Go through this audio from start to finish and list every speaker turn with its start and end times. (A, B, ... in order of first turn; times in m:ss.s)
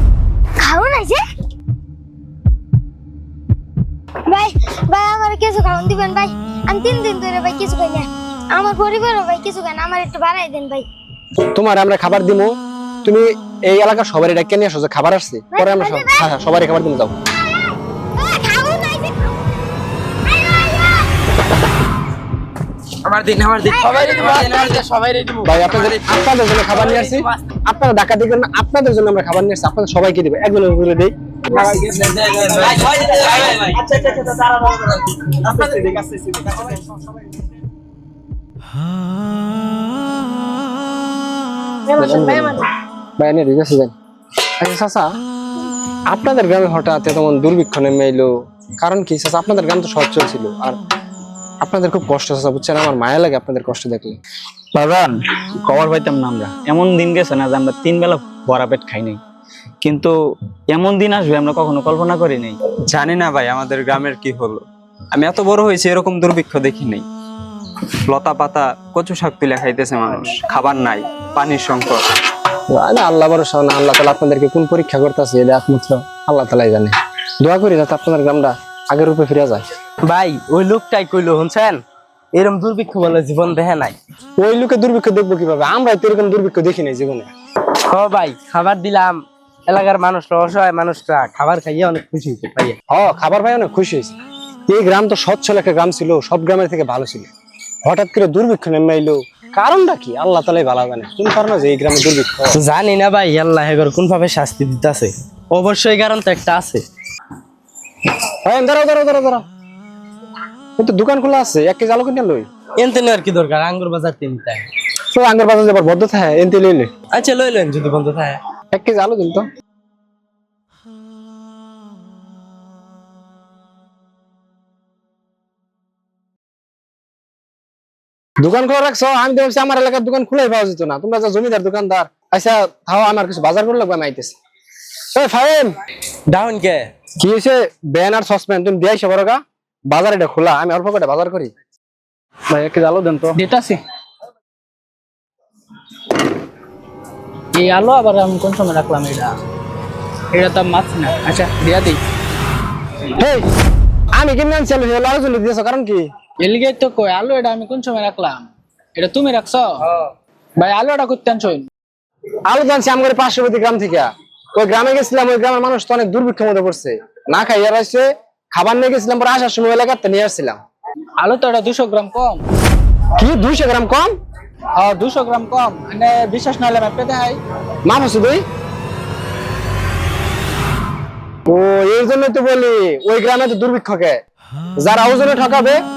0:00.6-0:01.2 A
0:04.3-0:10.9 A
0:11.5-0:17.1 B
0:15.5-0:16.3 A
0:17.4-0:19.6 A
0:20.2-0:21.1 A
0:23.0-0:27.4 C
0:23.7-0:24.5 A
0:25.4-0:31.1 B
0:31.5-0:33.9 C
0:41.9-0:42.6 B
0:43.2-0:44.0 B
0:44.6-0:45.1 B
0:46.1-0:48.3 B
0:48.8-0:50.8 B
0:51.6-0:54.2 B
0:54.7-0:59.2 D
0:59.8-1:00.1 D
1:00.7-1:02.6 D
1:02.9-1:07.1 E
1:08.1-1:12.1 E
1:12.7-1:19.6 B
1:20.0-1:21.8 C
1:22.3-1:24.0 C
1:24.4-1:27.3 B
1:27.9-1:32.8 C
1:32.9-1:37.3 B
1:37.8-1:42.6 B
1:42.5-1:46.8 C
1:48.4-1:49.4 B
1:50.8-1:52.5 B
1:52.8-1:54.7 C
1:55.1-1:56.9 B
1:57.1-1:58.4 C
1:58.7-1:59.4 B
2:08.4-2:14.4 B
2:15.1-2:15.7 B
2:16.3-2:16.9 C
2:17.2-2:21.5 B
2:22.5-2:23.4 B
2:23.4-2:23.8 F
2:27.6-2:29.3 F
2:30.3-2:32.0 F
2:33.1-2:33.5 B
2:34.2-2:36.1 B
2:36.4-2:39.8 F
2:40.6-2:41.7 F
2:42.5-2:50.6 B
2:51.2-2:52.4 F
2:53.2-2:54.1 B
2:54.8-2:57.4 F
2:57.8-2:58.4 B
3:01.5-3:04.2 B
3:04.8-3:05.8 B